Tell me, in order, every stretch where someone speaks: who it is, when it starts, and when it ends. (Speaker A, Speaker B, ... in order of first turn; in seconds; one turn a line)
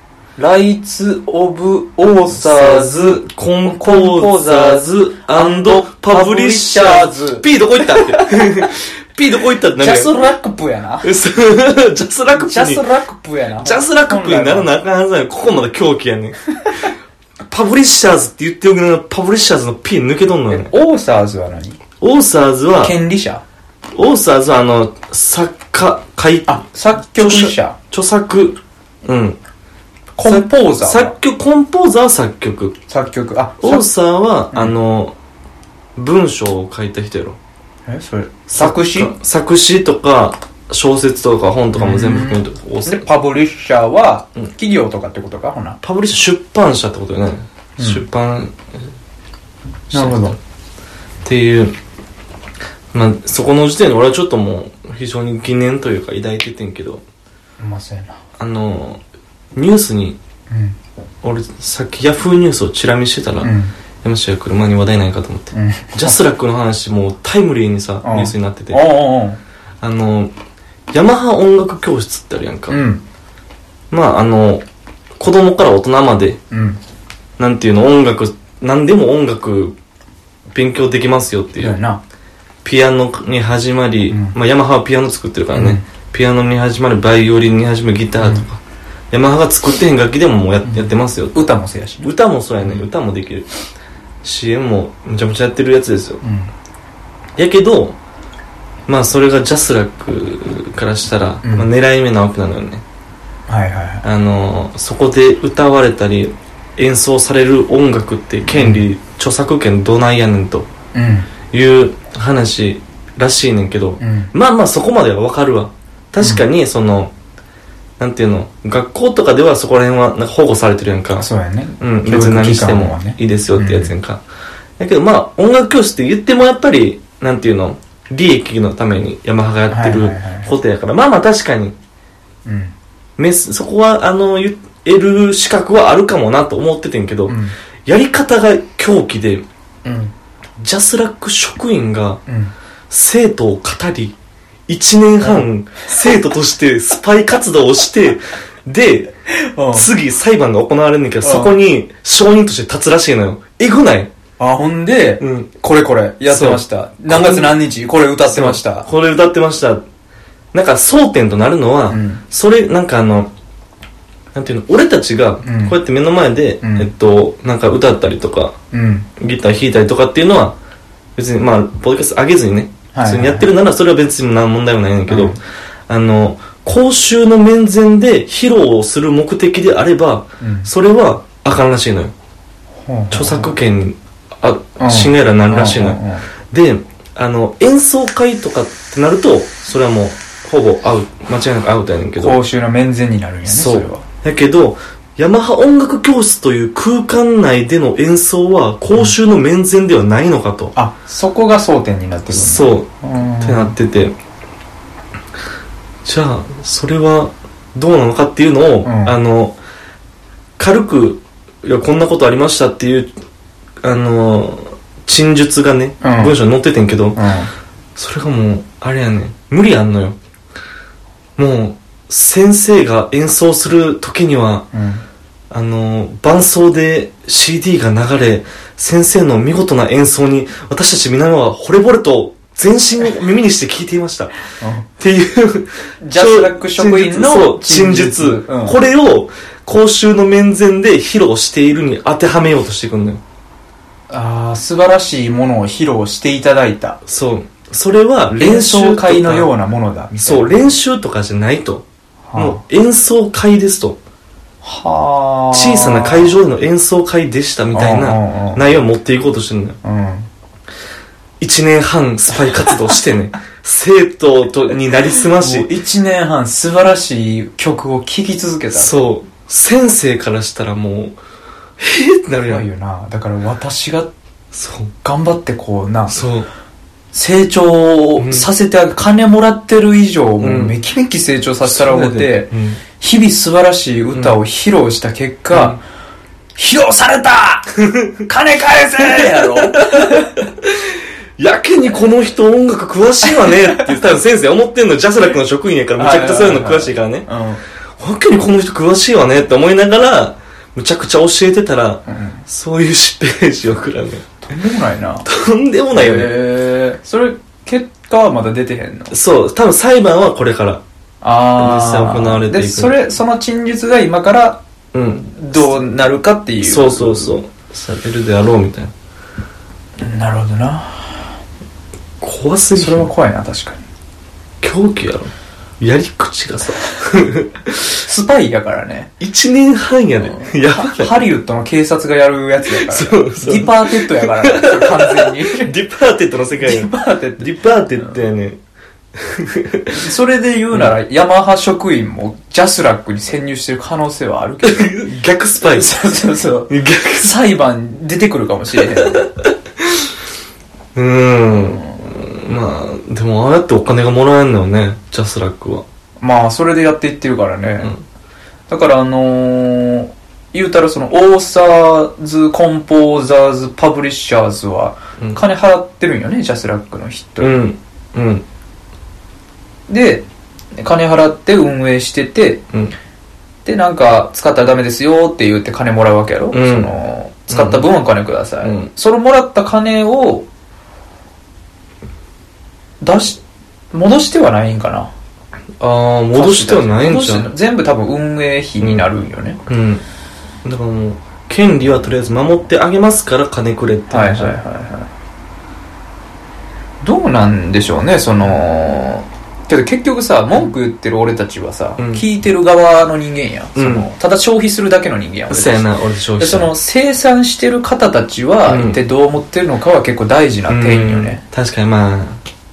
Speaker A: 0.4-8.7
Speaker B: 2.3-10.2
Speaker A: 9.8-11.1
Speaker B: 11.0-12.8
Speaker A: 12.3-14.7
Speaker B: 13.6-16.4
Speaker B: 17.5-20.7
Speaker A: 20.5-21.8
Speaker B: 22.0-22.9
Speaker A: 22.8-23.4
Speaker B: 23.9-29.4
Speaker A: 26.5-27.8
Speaker A: 30.2-31.1
Speaker B: 30.2-32.8
Speaker A: 32.9-33.9
Speaker B: 33.6-35.1
Speaker B: 36.0-37.4
Speaker A: 37.9-39.1
Speaker B: 38.5-43.0
Speaker A: 41.8-45.8
Speaker B: 45.8-48.8
Speaker A: 47.8-48.0
Speaker B: 49.9-50.4
Speaker A: 49.9-50.4
Speaker B: 51.2-51.8
Speaker B: 52.9-57.0
Speaker A: 57.6-58.2
Speaker B: 58.4-59.0
Speaker B: 59.5-60.2
Speaker A: 60.5-60.8
Speaker B: 61.2-68.8
Speaker A: 63.4-63.7
Speaker A: 65.5-66.2
Speaker A: 68.0-69.4
Speaker B: 69.8-70.3
Speaker B: 70.9-72.8
Speaker A: 72.7-73.0
Speaker B: 73.9-74.6
Speaker B: 75.2-76.4
Speaker A: 76.5-76.8
Speaker B: 77.4-79.8
Speaker B: 80.5-81.8
Speaker A: 81.6-82.0
Speaker B: 82.6-91.4
Speaker A: 84.1-84.4
Speaker A: 85.5-85.8
Speaker A: 88.2-88.5
Speaker A: 90.6-92.1
Speaker B: 92.0-93.5
Speaker B: 94.2-96.2
Speaker A: 96.2-96.5
Speaker B: 97.4-98.0
Speaker B: 98.9-102.8
Speaker A: 101.4-101.7
Speaker A: 103.5-104.0
Speaker B: 104.0-110.7
Speaker A: 108.5-108.8
Speaker A: 110.9-111.3
Speaker B: 111.5-117.1
Speaker A: 114.0-114.3
Speaker B: 118.0-121.3
Speaker A: 121.2-123.9
Speaker B: 121.8-124.2
Speaker B: 124.8-131.8
Speaker A: 129.7-130.5
Speaker A: 132.4-132.8
Speaker B: 133.2-139.4
Speaker A: 137.3-137.5
Speaker A: 139.8-140.1
Speaker B: 140.6-142.2
Speaker A: 142.3-142.5
Speaker B: 142.9-144.2
Speaker B: 144.7-149.1
Speaker A: 145.2-145.5
Speaker A: 149.3-149.9
Speaker B: 149.7-154.1
Speaker A: 151.2-151.6
Speaker A: 154.4-158.9
Speaker B: 155.2-155.5
Speaker B: 156.3-157.6
Speaker B: 158.3-159.8
Speaker B: 160.5-163.3
Speaker A: 161.9-162.2
Speaker B: 164.3-168.6
Speaker A: 165.4-165.8
Speaker A: 166.6-166.9
Speaker A: 168.7-169.1
Speaker B: 169.2-170.6
Speaker B: 171.2-182.1
Speaker A: 172.9-173.5
Speaker A: 175.1-175.4
Speaker A: 180.4-180.7
Speaker A: 182.8-183.5
Speaker B: 183.1-192.4
Speaker A: 184.8-186.3
Speaker A: 192.2-194.1
Speaker B: 193.5-200.7
Speaker A: 200.8-203.8
Speaker B: 202.3-202.9
Speaker B: 203.4-204.2
Speaker B: 206.1-209.6
Speaker A: 208.8-209.2
Speaker B: 210.6-213.1
Speaker B: 213.8-217.2
Speaker A: 216.0-216.4
Speaker A: 217.2-217.5
Speaker B: 218.0-220.2
Speaker B: 221.4-224.7
Speaker A: 224.7-225.0
Speaker B: 225.5-234.3
Speaker A: 234.6-234.9
Speaker B: 235.0-243.2
Speaker A: 236.0-238.8
Speaker A: 244.1-247.0
Speaker B: 247.1-249.5
Speaker A: 248.4-250.7
Speaker B: 250.2-251.8
Speaker A: 252.3-252.6
Speaker B: 252.4-254.0
Speaker A: 254.6-256.4
Speaker B: 255.5-259.8
Speaker A: 257.7-258.7
Speaker A: 259.8-260.3
Speaker B: 261.4-265.7
Speaker A: 262.5-262.8
Speaker A: 265.1-268.9
Speaker B: 268.7-271.2
Speaker B: 271.8-272.6
Speaker A: 272.5-274.1
Speaker B: 274.5-274.9
Speaker A: 275.0-276.2
Speaker B: 276.1-276.5
Speaker A: 277.1-285.8
Speaker B: 278.2-278.5
Speaker B: 280.4-280.8
Speaker B: 281.6-282.8
Speaker B: 284.1-284.4
Speaker B: 285.5-285.8
Speaker A: 286.6-290.4
Speaker B: 287.8-288.2
Speaker B: 289.0-297.3
Speaker A: 296.0-297.6
Speaker B: 298.0-304.3
Speaker A: 302.1-302.4
Speaker A: 304.4-305.3
Speaker B: 305.2-306.4
Speaker A: 305.9-309.1
Speaker B: 309.1-310.8
Speaker A: 311.2-317.4
Speaker B: 311.6-313.0
Speaker B: 314.9-315.7
Speaker B: 316.6-318.9
Speaker A: 320.0-321.3
Speaker B: 322.2-323.1
Speaker A: 322.8-323.9
Speaker B: 324.6-328.0
Speaker A: 328.0-329.1
Speaker B: 329.2-331.1
Speaker A: 330.2-335.7
Speaker B: 332.7-338.6
Speaker A: 336.6-338.2
Speaker B: 339.1-340.0
Speaker A: 339.9-345.0
Speaker B: 344.6-345.9
Speaker A: 345.6-349.3
Speaker B: 346.7-347.4
Speaker B: 349.0-349.3
Speaker B: 349.8-350.1
Speaker B: 350.9-355.9
Speaker A: 351.6-352.2
Speaker A: 356.2-358.0
Speaker A: 358.7-367.6
Speaker B: 367.4-368.4
Speaker A: 369.9-370.3
Speaker A: 370.8-372.6
Speaker A: 373.6-380.5
Speaker B: 376.5-376.9
Speaker B: 377.5-377.9
Speaker B: 378.6-378.9
Speaker A: 383.0-383.4
Speaker A: 383.9-385.1
Speaker B: 385.8-387.5
Speaker A: 386.3-389.6
Speaker B: 389.7-390.0
Speaker B: 390.6-394.6
Speaker A: 394.1-395.1
Speaker A: 397.0-411.4
Speaker B: 402.0-402.2
Speaker B: 403.8-404.1
Speaker B: 405.5-406.7
Speaker B: 408.7-409.0
Speaker B: 410.7-412.4